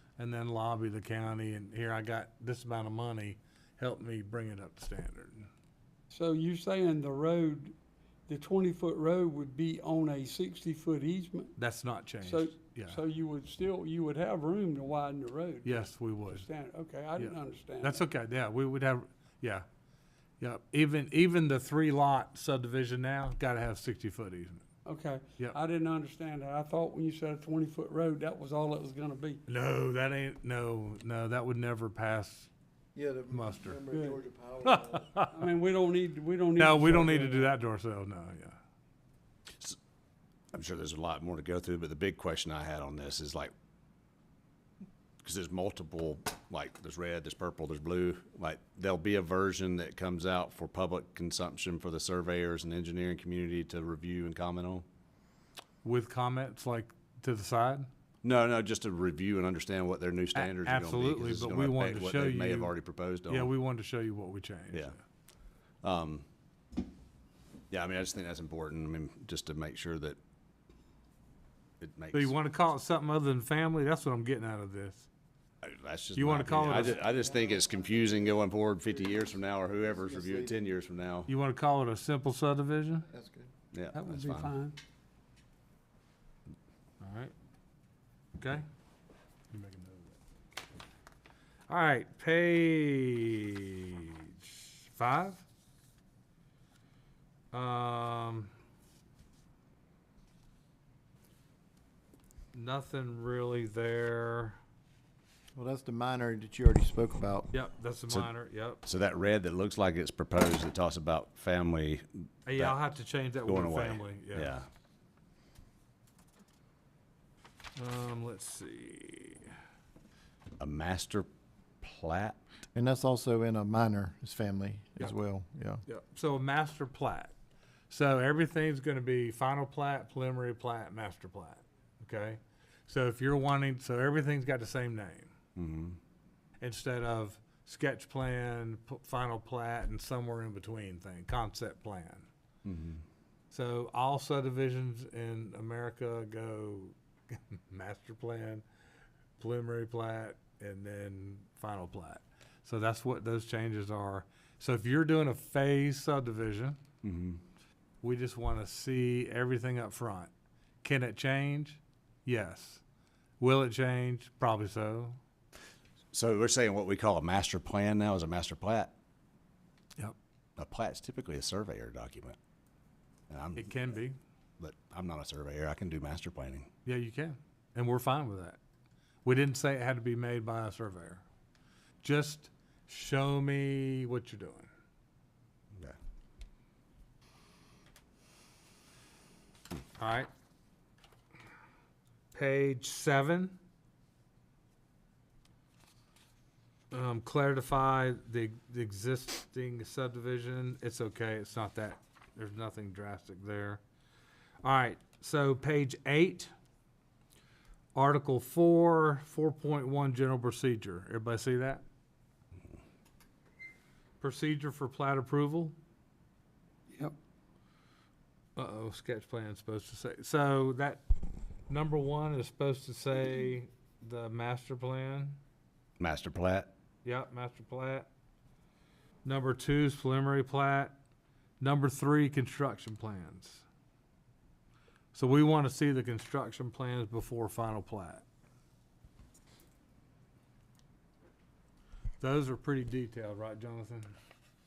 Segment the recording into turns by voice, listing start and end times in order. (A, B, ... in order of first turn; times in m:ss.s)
0:00.2-0:05.5 A
0:06.1-0:07.7 B
0:08.3-0:11.5 B
0:11.6-0:13.0 A
0:12.2-0:18.0 B
0:15.6-0:16.5 A
0:17.1-0:19.6 A
0:20.4-0:24.6 A
0:24.8-0:29.4 B
0:29.5-0:32.5 A
0:32.9-0:35.1 C
0:33.3-0:33.8 A
0:33.9-0:34.2 B
0:34.6-0:35.4 A
0:35.2-0:37.5 B
0:36.6-0:38.6 A
0:40.5-0:43.5 D
0:45.2-0:54.8 D
0:55.8-0:57.9 A
0:58.2-1:03.5 D
1:00.3-1:02.7 A
1:03.2-1:05.0 A
1:05.8-1:06.2 D
1:07.7-1:10.2 D
1:11.8-1:12.3 D
1:12.1-1:15.1 A
1:15.6-1:21.3 D
1:16.1-1:17.0 A
1:17.1-1:17.7 C
1:19.9-1:20.6 C
1:21.3-1:23.1 A
1:23.1-1:23.5 C
1:23.7-1:24.5 D
1:23.9-1:24.8 B
1:27.0-1:27.3 A
1:28.4-1:28.6 A
1:29.5-1:30.2 A
1:31.7-1:35.4 A
1:37.5-1:38.5 A
1:42.5-1:44.6 A
1:45.5-1:47.5 C
1:47.5-1:48.8 A
1:48.8-1:52.8 D
1:52.4-1:54.6 A
1:53.4-1:54.6 D
1:57.8-1:59.5 A
2:00.6-2:01.3 D
2:01.8-2:02.4 D
2:02.7-2:05.8 C
2:05.9-2:07.3 A
2:07.9-2:15.3 A
2:15.6-2:16.0 D
2:16.6-2:22.3 A
2:22.6-2:23.0 D
2:23.5-2:28.6 A
2:29.4-2:36.8 A
2:37.0-2:37.4 D
2:38.0-2:40.3 A
2:40.8-2:42.8 A
2:43.4-2:45.2 A
2:46.1-2:48.9 D
2:50.6-2:52.4 D
2:53.3-2:53.7 D
2:53.6-2:54.2 A
2:54.6-2:56.7 D
2:56.8-2:58.6 A
2:59.2-3:01.2 A
3:02.0-3:04.7 A
3:10.0-3:10.3 A
3:12.3-3:13.6 A
3:16.9-3:23.8 A
3:24.6-3:26.5 A
3:27.9-3:31.8 A
3:34.2-3:35.7 A
3:36.9-3:37.2 B
3:38.6-3:41.0 A
3:41.7-3:45.4 A
3:46.0-3:46.7 D
3:47.0-3:48.1 A
3:49.2-3:51.0 A
3:51.6-3:53.6 A
3:55.1-3:58.2 A
4:02.2-4:04.1 A